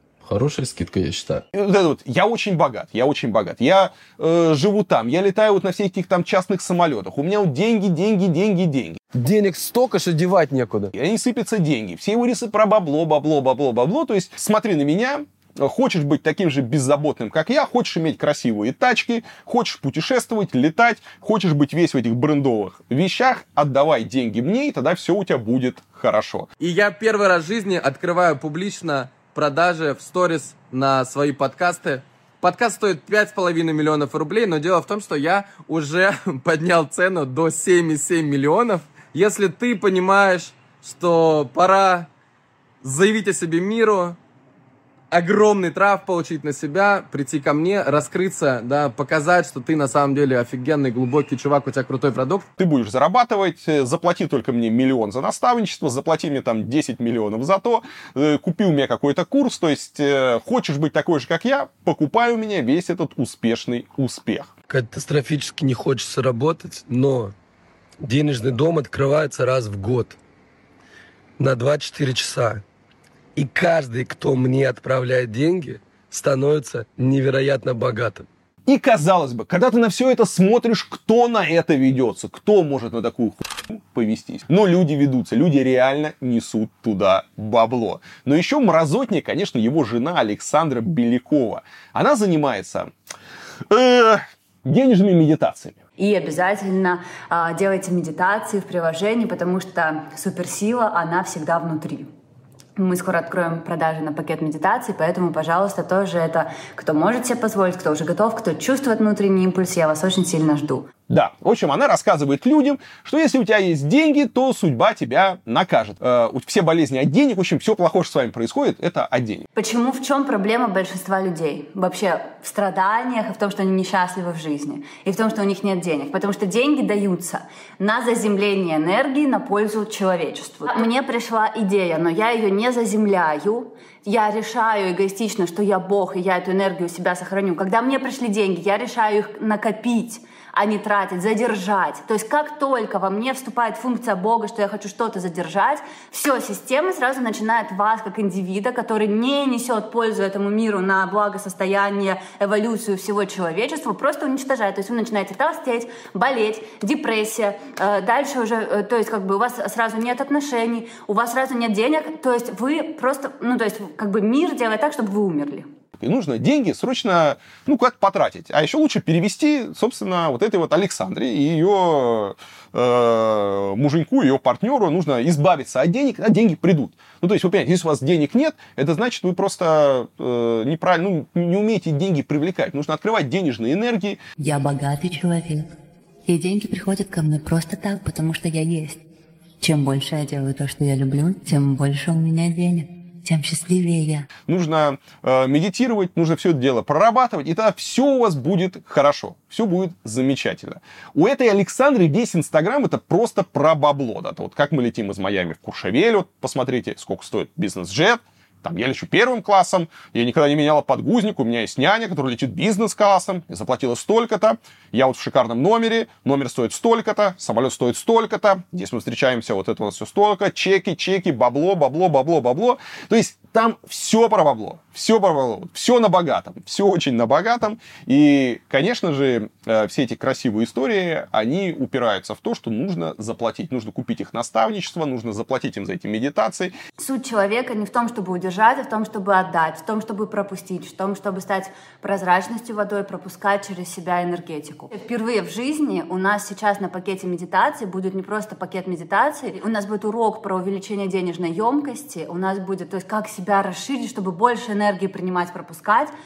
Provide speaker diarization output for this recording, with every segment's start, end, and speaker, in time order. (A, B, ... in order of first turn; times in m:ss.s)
0:01.5-0:09.0 A
0:09.2-0:09.6 B
0:10.9-0:26.5 A
0:26.6-0:42.1 C
0:42.8-0:44.2 C
0:45.1-0:52.5 C
0:52.6-1:04.5 A
1:04.7-1:07.2 B
1:08.2-1:10.1 B
1:11.4-1:12.4 B
1:13.4-1:15.0 B
1:15.7-1:17.1 B
1:18.7-1:32.9 A
1:33.7-1:35.8 A
1:36.0-1:42.1 D
1:42.8-1:50.9 D
1:51.1-1:59.4 A
1:59.6-2:45.7 D
2:46.0-3:04.2 A
3:04.4-3:05.7 E
3:06.3-3:09.0 E
3:09.6-3:14.2 E
3:14.5-3:56.7 A
3:57.0-4:16.1 D